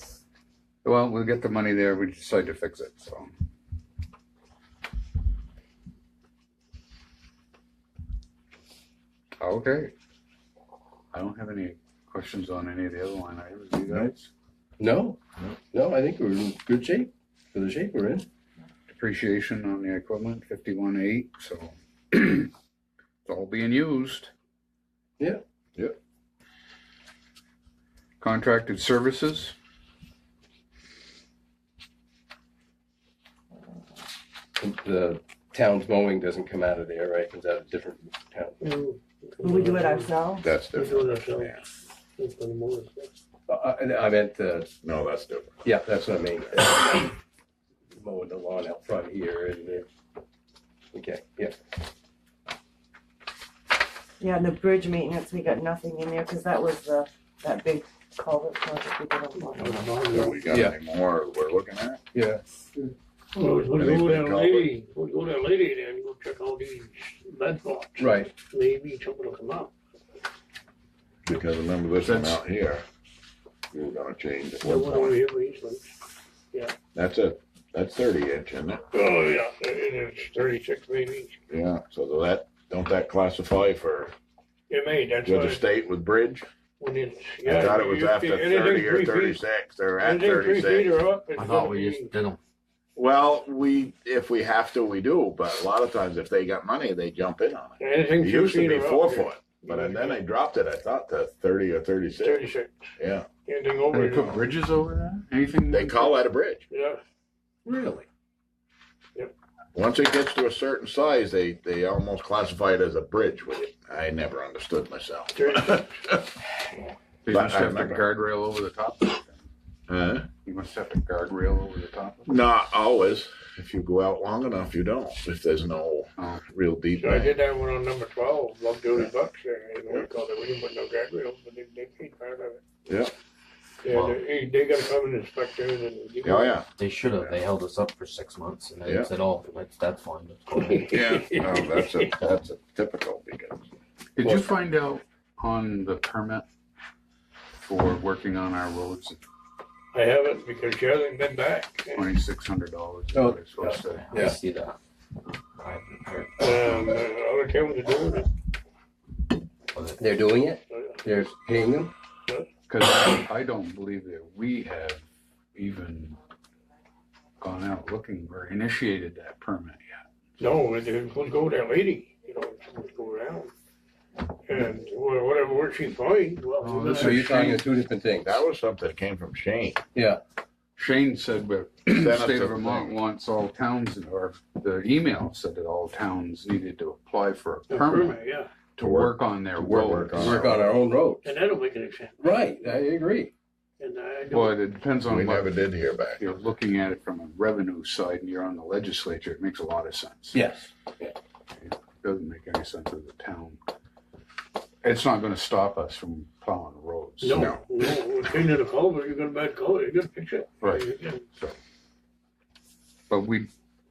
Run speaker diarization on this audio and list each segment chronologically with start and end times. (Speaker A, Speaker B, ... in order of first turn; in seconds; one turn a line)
Speaker A: 0.8-3.3
Speaker A: 9.4-9.9
Speaker A: 11.1-14.3
Speaker B: 14.8-15.2
Speaker B: 15.7-18.2
Speaker A: 18.9-22.5
Speaker A: 23.2-24.3
Speaker A: 28.2-29.5
Speaker B: 34.6-38.6
Speaker C: 38.6-40.1
Speaker D: 39.4-40.5
Speaker E: 40.4-41.6
Speaker C: 40.7-43.1
Speaker B: 43.5-44.7
Speaker E: 44.8-45.6
Speaker B: 45.6-47.1
Speaker B: 47.9-49.9
Speaker B: 50.9-51.6
Speaker D: 54.2-60.1
Speaker C: 59.4-60.4
Speaker E: 60.1-62.0
Speaker B: 60.5-60.7
Speaker B: 62.1-62.4
Speaker C: 63.3-69.7
Speaker E: 63.8-64.7
Speaker B: 68.0-68.3
Speaker E: 71.2-72.8
Speaker A: 72.0-72.4
Speaker E: 73.7-75.2
Speaker C: 74.6-75.9
Speaker E: 76.9-78.8
Speaker C: 78.9-81.4
Speaker E: 81.5-84.1
Speaker C: 84.7-85.7
Speaker E: 85.2-86.5
Speaker C: 86.8-89.4
Speaker E: 87.4-90.9
Speaker C: 90.0-92.1
Speaker F: 91.3-92.4
Speaker E: 93.0-103.3
Speaker C: 97.8-100.2
Speaker C: 102.2-104.4
Speaker A: 103.9-106.2
Speaker E: 105.7-106.7
Speaker C: 106.7-107.0
Speaker B: 107.7-108.0
Speaker E: 109.7-116.3
Speaker C: 115.3-116.0
Speaker A: 117.2-119.5
Speaker E: 117.3-118.0
Speaker E: 119.9-120.3
Speaker A: 120.4-122.4
Speaker E: 122.2-127.3
Speaker A: 126.2-126.4
Speaker C: 127.0-132.6
Speaker E: 132.8-133.1
Speaker C: 133.8-136.6
Speaker F: 133.9-134.2
Speaker E: 136.2-136.7
Speaker F: 136.8-140.9
Speaker E: 138.8-139.1
Speaker C: 140.6-142.1
Speaker E: 140.9-143.7
Speaker A: 144.2-146.4
Speaker B: 144.2-144.5
Speaker A: 147.6-149.2
Speaker C: 149.9-152.1
Speaker A: 151.9-154.2
Speaker B: 153.1-154.4
Speaker F: 154.0-154.8
Speaker F: 155.6-156.3
Speaker C: 156.4-158.3
Speaker F: 159.7-160.0
Speaker B: 160.0-161.9
Speaker C: 160.7-161.0
Speaker A: 162.7-166.2
Speaker A: 167.4-170.1
Speaker C: 170.4-173.5
Speaker C: 174.4-177.2
Speaker A: 176.6-177.7
Speaker B: 176.9-178.4
Speaker E: 178.2-179.8
Speaker B: 179.9-180.2
Speaker A: 180.8-188.2
Speaker E: 181.9-183.0
Speaker C: 187.7-188.5
Speaker A: 188.8-190.7
Speaker E: 188.8-190.4
Speaker B: 190.1-191.3
Speaker C: 191.2-192.3
Speaker B: 192.2-193.3
Speaker C: 193.8-194.6
Speaker A: 194.3-195.6
Speaker E: 195.1-196.2
Speaker A: 196.2-200.4
Speaker B: 200.3-201.1
Speaker A: 201.6-203.6
Speaker A: 204.8-207.5
Speaker C: 207.2-211.2
Speaker E: 207.3-207.6
Speaker A: 210.6-211.6
Speaker A: 213.1-213.5